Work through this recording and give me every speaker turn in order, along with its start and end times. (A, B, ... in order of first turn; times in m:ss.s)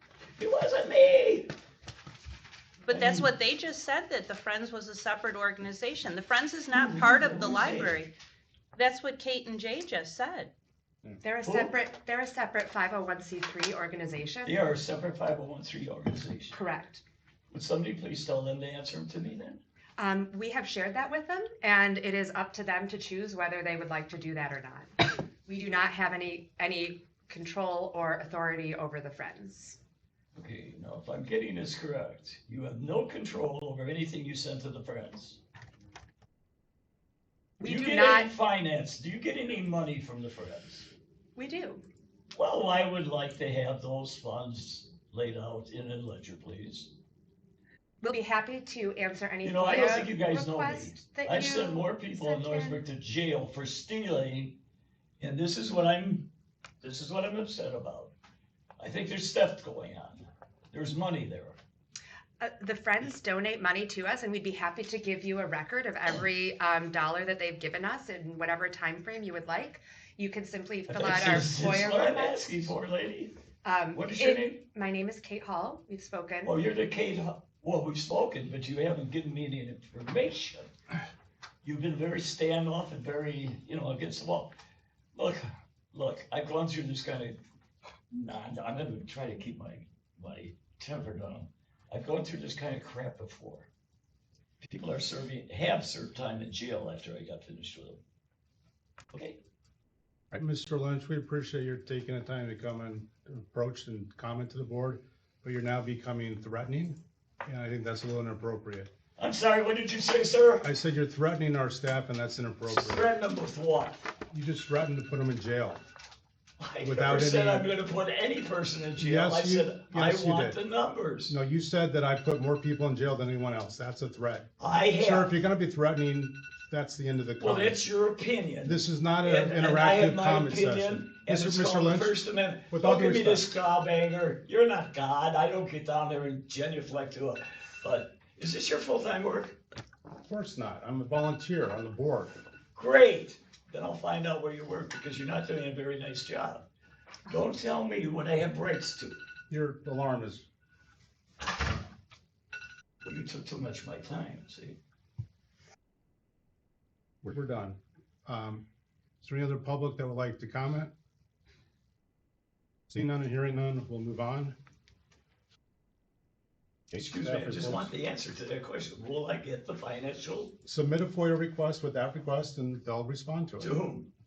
0:00.4-0:01.5 A
0:02.8-0:08.1 B
0:02.9-0:03.3 A
0:06.7-0:08.0 A
0:08.8-0:10.5 B
0:11.2-0:14.6 C
0:11.4-0:11.7 A
0:14.4-0:16.6 A
0:16.5-0:17.0 C
0:17.5-0:19.6 A
0:20.0-0:29.8 C
0:30.4-0:35.4 A
0:37.6-0:38.3 C
0:37.6-0:40.9 A
0:41.4-0:41.8 C
0:42.3-0:46.9 A
0:48.0-0:52.8 C
0:49.4-0:54.6 A
0:55.2-0:56.3 A
0:56.8-0:58.1 A
0:58.8-1:01.6 A
1:02.4-1:12.7 C
1:10.9-1:13.4 A
1:13.6-1:16.6 C
1:13.9-1:14.6 A
1:16.4-1:20.7 A
1:21.6-1:24.6 A
1:25.2-1:27.4 A
1:28.1-1:33.7 A
1:34.6-1:38.0 A
1:39.1-1:39.4 A
1:40.3-1:48.9 D
1:49.2-1:50.7 A
1:50.6-1:53.1 D
1:52.7-1:54.0 A
1:54.3-1:55.8 D
1:56.6-2:01.3 A
1:56.8-1:57.7 D
1:59.0-2:00.6 D
2:01.3-2:07.8 D
2:04.6-2:05.3 A
2:07.4-2:19.6 A
2:08.6-2:12.2 D
2:12.7-2:13.5 D
2:20.2-2:22.4 D
2:22.8-2:26.7 A
2:27.3-2:29.2 A
2:29.5-2:30.5 D
2:33.0-2:34.8 A
2:37.2-2:38.7 D
2:39.2-2:40.9 D
2:42.9-2:44.6 D
2:46.9-2:50.6 A
2:47.0-2:47.9 D
2:50.6-2:53.7 D
2:53.6-2:54.1 A